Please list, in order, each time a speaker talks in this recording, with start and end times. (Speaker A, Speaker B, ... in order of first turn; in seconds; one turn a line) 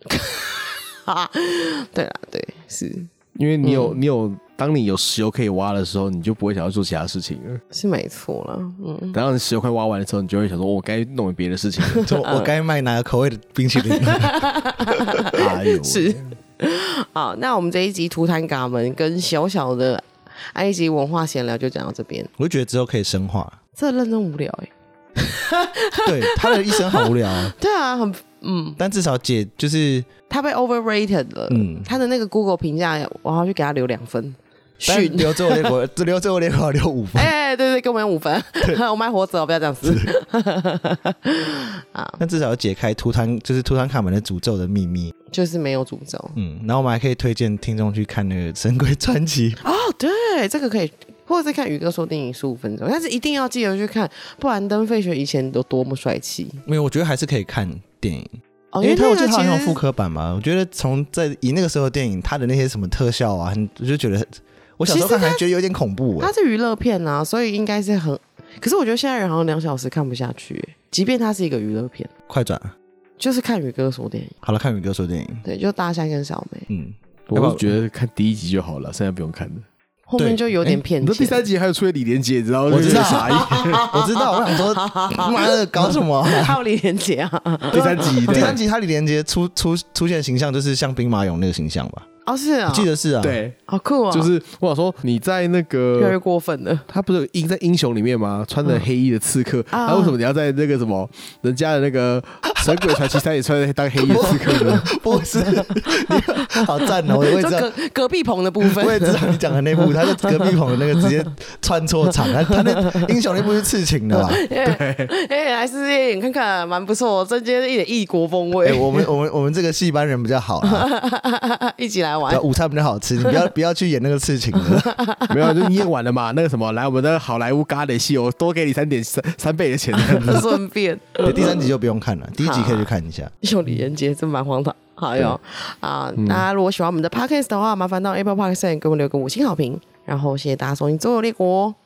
Speaker A: 0.1-4.0
Speaker B: 3.4-7.6
Speaker A: 7.7-9.2
Speaker B: 9.1-12.1
Speaker A: 11.9-12.5
Speaker C: 12.1-14.5
Speaker A: 13.8-22.3
Speaker B: 15.3-16.4
Speaker C: 22.4-23.6
Speaker A: 23.8-28.8
Speaker C: 26.1-27.5
Speaker C: 28.8-30.1
Speaker A: 30.3-35.8
Speaker C: 31.5-31.9
Speaker C: 34.8-37.3
Speaker A: 37.1-42.2
Speaker C: 39.8-40.1
Speaker C: 42.2-45.1
Speaker A: 45.3-46.4
Speaker C: 46.4-49.6
Speaker A: 49.6-56.6
Speaker C: 56.7-58.3
Speaker A: 58.7-59.8
Speaker C: 58.8-66.3
Speaker A: 64.9-65.4
Speaker A: 66.2-72.1
Speaker C: 72.3-72.7
Speaker A: 73.2-74.4
Speaker C: 74.4-75.4
Speaker A: 75.4-76.7
Speaker C: 76.7-77.7
Speaker B: 77.3-79.7
Speaker A: 80.1-81.5
Speaker C: 80.2-80.8
Speaker B: 81.0-83.9
Speaker C: 82.7-86.6
Speaker A: 82.8-88.5
Speaker B: 87.7-88.6
Speaker C: 87.8-92.1
Speaker A: 92.3-92.9
Speaker C: 92.7-93.4
Speaker B: 93.2-93.6
Speaker A: 93.7-94.3
Speaker B: 94.1-96.2
Speaker A: 96.0-96.9
Speaker B: 96.9-104.9
Speaker A: 99.7-100.2
Speaker C: 102.5-103.2
Speaker A: 104.1-111.3
Speaker C: 104.1-107.7
Speaker C: 108.6-114.4
Speaker A: 112.1-113.1
Speaker A: 114.1-119.1
Speaker B: 114.7-115.1
Speaker C: 118.7-120.9
Speaker A: 120.6-122.5
Speaker C: 122.3-124.9
Speaker A: 124.6-125.8
Speaker B: 125.3-130.6
Speaker A: 129.9-131.7
Speaker C: 131.2-133.3
Speaker A: 132.4-132.9
Speaker A: 133.4-141.8
Speaker B: 136.2-136.4